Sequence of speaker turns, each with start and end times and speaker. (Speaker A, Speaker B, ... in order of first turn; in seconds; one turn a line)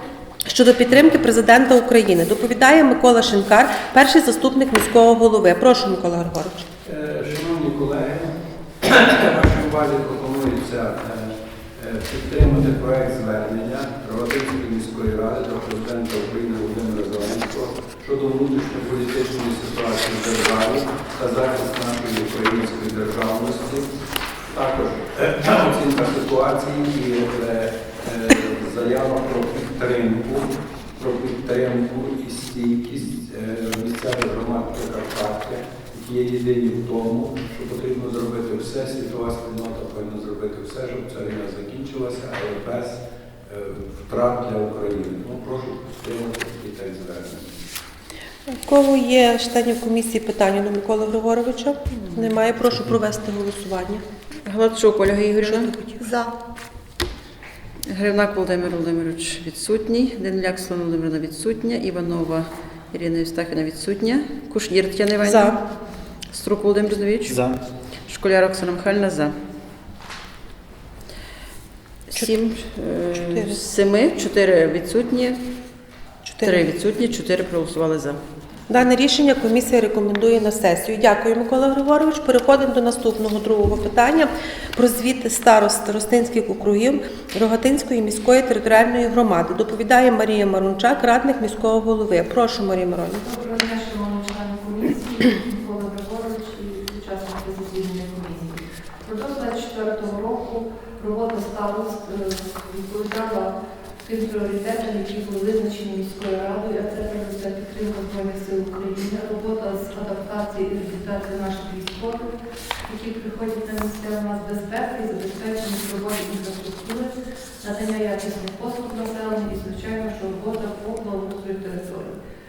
Speaker A: 0.5-6.6
Speaker B: 6.8-23.9
Speaker B: 24.5-47.5
Speaker A: 48.5-54.0
Speaker C: 51.9-52.4
Speaker C: 54.4-55.7
Speaker A: 55.4-56.1
Speaker C: 57.9-65.6
Speaker A: 65.2-65.6
Speaker C: 66.3-67.5
Speaker C: 68.1-69.3
Speaker C: 72.1-75.4
Speaker A: 73.1-73.6
Speaker A: 76.2-76.6
Speaker C: 76.4-78.2
Speaker A: 78.7-93.2
Speaker D: 93.2-103.5
Speaker D: 104.0-112.3
Speaker D: 112.9-122.1